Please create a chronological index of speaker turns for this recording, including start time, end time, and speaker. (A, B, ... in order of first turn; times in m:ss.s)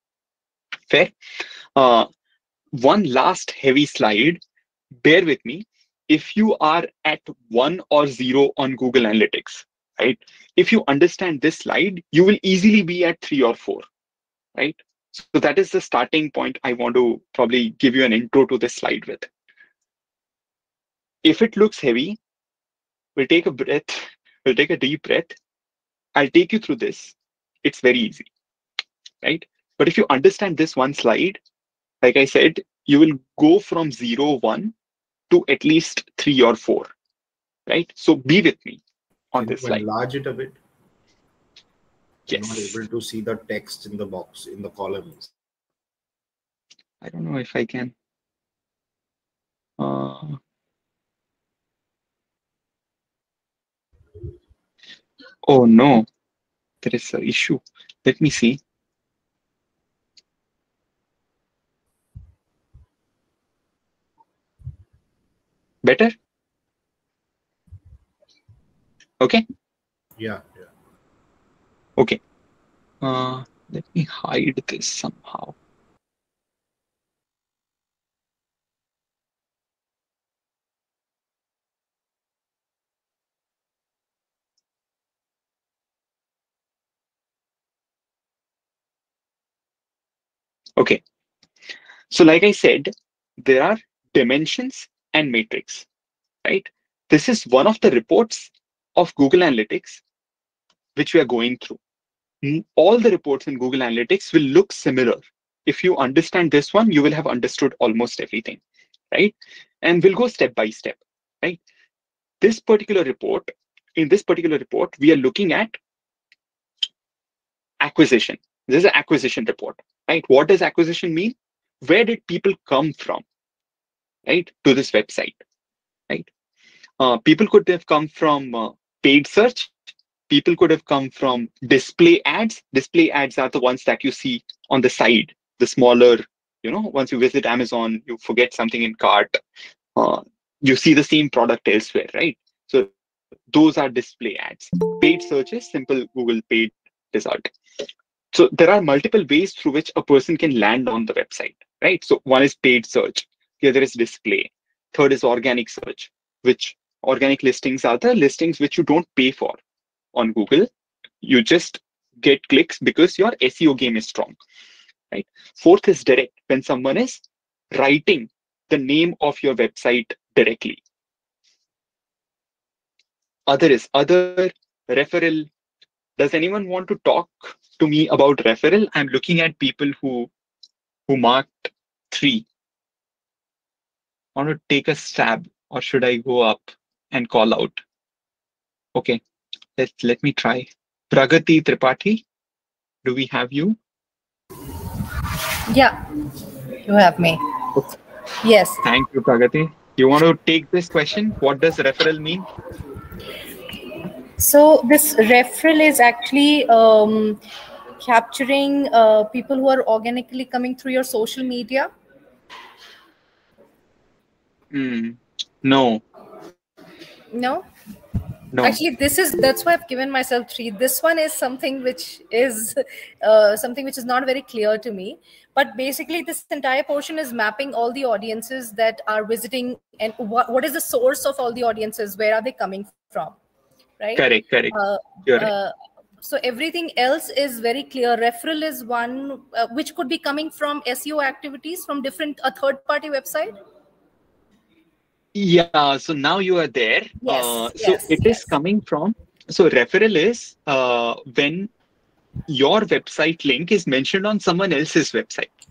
0:00.9-0:01.1 A
0:01.8-0:02.1 A
0:02.7-0:04.4 A
0:05.0-0:13.8 A
0:14.5-0:19.3 A
0:21.2-0:22.2 A
0:23.2-0:25.4 A
0:26.2-0:28.3 A
0:29.2-0:31.4 A
0:32.0-0:34.7 A
0:35.3-0:36.9 A
0:37.7-0:38.8 A
0:39.3-0:39.8 A
0:39.4-0:40.6 B
0:42.3-0:42.8 A
0:42.3-0:45.3 B
0:47.0-0:47.9 A
0:49.8-0:50.4 A
0:55.4-0:56.1 A
0:56.8-0:58.6 A
1:05.8-1:06.1 A
1:10.2-1:10.7 B
1:13.0-1:15.5 A
1:32.1-1:35.9 A
1:36.4-1:40.0 A
1:41.0-1:41.8 A
1:42.4-1:48.6 A
1:49.1-1:51.6 A
1:52.4-1:55.8 A
1:57.8-2:03.2 A
2:04.2-2:05.4 A
2:07.0-2:09.7 A
2:10.3-2:19.4 A
2:20.0-2:22.9 A
2:23.5-2:27.5 A
2:28.3-2:39.6 A
2:40.1-2:40.7 A
2:41.2-2:44.4 A
2:45.1-2:47.2 A
2:47.7-2:50.8 A
2:53.5-2:55.5 A
2:56.2-3:00.3 A
3:01.1-3:02.4 A
3:04.4-3:07.8 A
3:08.9-3:09.2 A
3:09.8-3:12.2 A
3:13.0-3:13.8 A
3:15.7-3:16.0 C
3:16.8-3:17.4 C
3:18.4-3:18.8 C
3:18.8-3:22.4 A
3:24.4-3:27.4 C
3:28.0-3:31.9 C
3:34.7-3:36.0 A
3:37.3-3:37.6 C
3:38.5-3:38.8 A
3:38.6-3:53.4 C
3:54.0-4:03.6 C
3:54.2-3:54.7 A
3:55.2-3:55.5 A
4:05.3-4:11.7 A
4:07.2-4:08.5 C
4:12.5-4:15.5 A